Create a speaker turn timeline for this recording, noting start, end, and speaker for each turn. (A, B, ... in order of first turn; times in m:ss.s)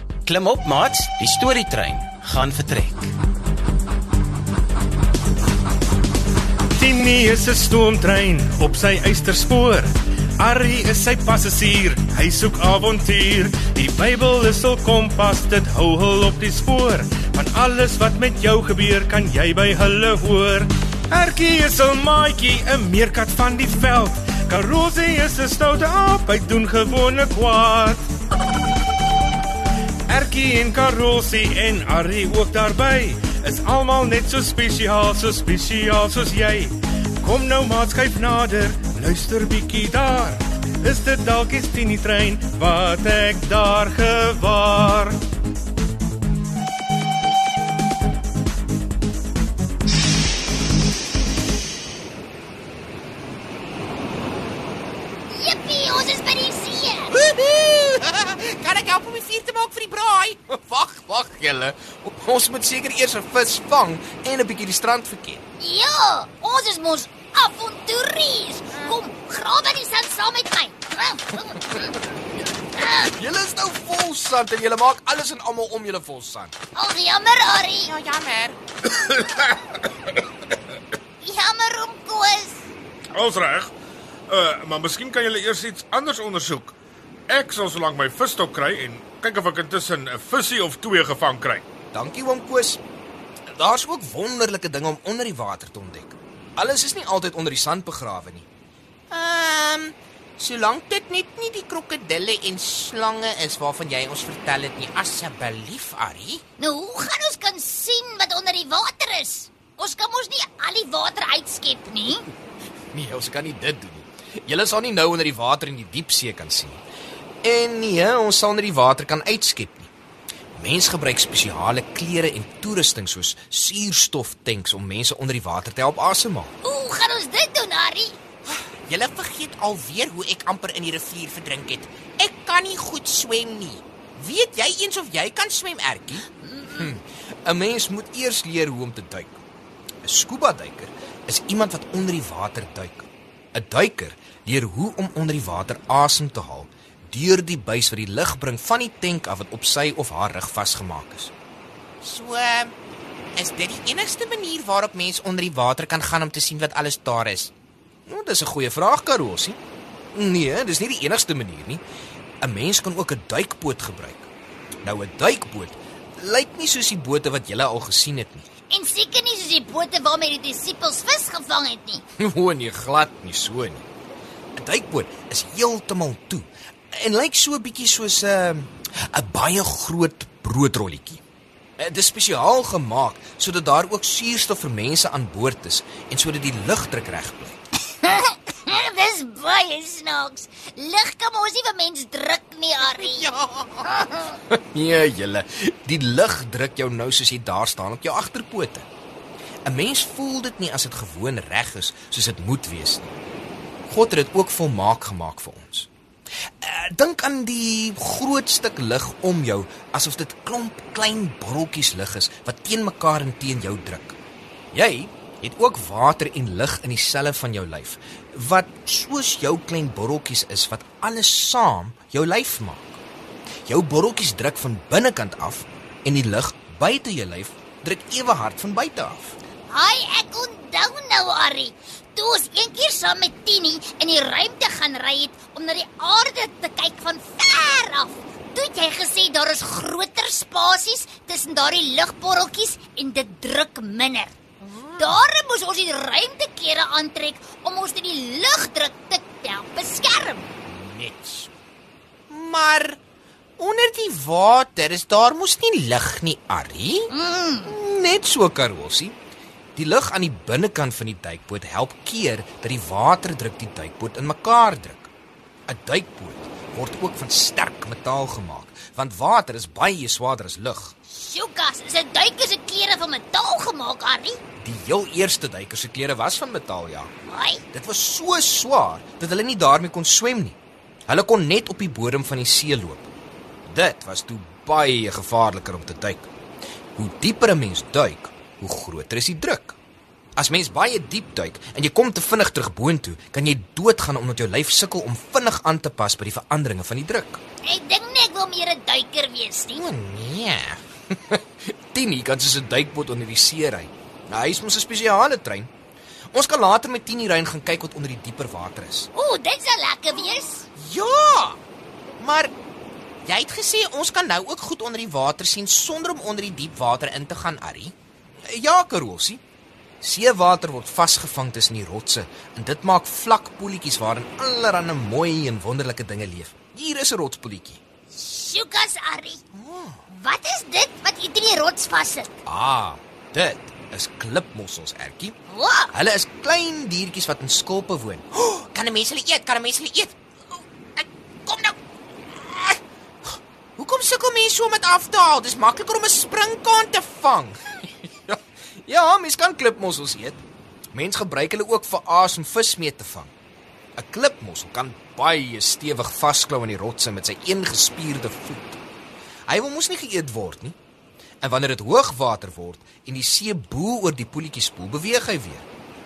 0:00.2-0:03.1 A
0:06.8-0:28.0 B
0:30.1-0:45.2 B
0:55.3-0:57.1 C
0:57.1-1:05.4 D
1:05.6-1:11.2 C
1:08.7-1:09.0 D
1:11.3-1:16.5 D
1:16.8-1:17.7 C
1:17.8-1:18.6 D
1:18.9-1:19.7 E
1:21.2-1:22.6 C
1:23.1-1:23.7 E
1:24.3-1:26.7 E
1:27.3-1:31.6 E
1:31.9-1:32.8 D
1:33.5-1:38.5 D
1:39.1-1:46.4 D
1:46.6-1:52.1 C
1:52.9-1:56.8 D
1:57.4-1:59.9 D
2:00.5-2:06.5 D
2:06.6-2:08.1 C
2:08.4-2:19.4 D
2:20.0-2:31.3 D
2:32.0-2:32.7 D
2:33.4-2:37.5 D
2:38.1-2:39.6 D
2:40.1-2:41.8 D
2:42.4-2:44.3 D
2:44.8-2:48.5 D
2:48.7-2:52.0 C
2:52.2-2:53.8 D
2:54.6-3:01.2 D
3:01.8-3:07.5 D
3:08.0-3:12.8 C
3:12.8-3:18.8 D
3:19.6-3:23.1 D
3:23.9-3:25.9 D
3:26.6-3:34.2 D
3:34.7-3:43.0 D
3:43.7-3:49.3 D
3:49.7-4:04.3 C
4:04.6-4:05.3 D
4:05.4-4:10.4 C
4:10.6-4:11.5 D
4:12.3-4:13.0 D
4:13.6-4:17.1 D
4:17.2-4:17.6 C
4:17.6-4:19.1 D
4:19.8-4:25.1 D
4:25.7-4:30.9 D
4:31.1-4:34.4 C
4:34.6-4:37.1 D
4:37.3-4:37.6 C
4:37.7-4:43.1 D
4:43.7-4:46.3 D
4:47.0-4:49.8 D
4:50.4-4:57.4 D
4:57.6-4:59.7 C
4:59.7-5:01.4 D
5:01.9-5:05.7 D
5:06.3-5:09.1 D
5:09.1-5:10.6 C
5:10.2-5:11.6 D
5:12.2-5:12.5 D
5:13.2-5:17.9 D
5:18.5-5:19.4 D
5:20.0-5:27.8 D
5:28.1-5:29.4 C
5:29.5-5:30.0 D
5:30.2-5:32.3 C
5:32.4-5:35.4 D
5:35.5-5:35.8 C
5:35.9-5:40.1 D
5:41.0-5:41.8 D
5:42.3-5:42.8 D
5:43.8-5:53.3 D
5:54.0-5:58.8 D
5:59.5-6:00.8 D
6:01.4-6:05.6 D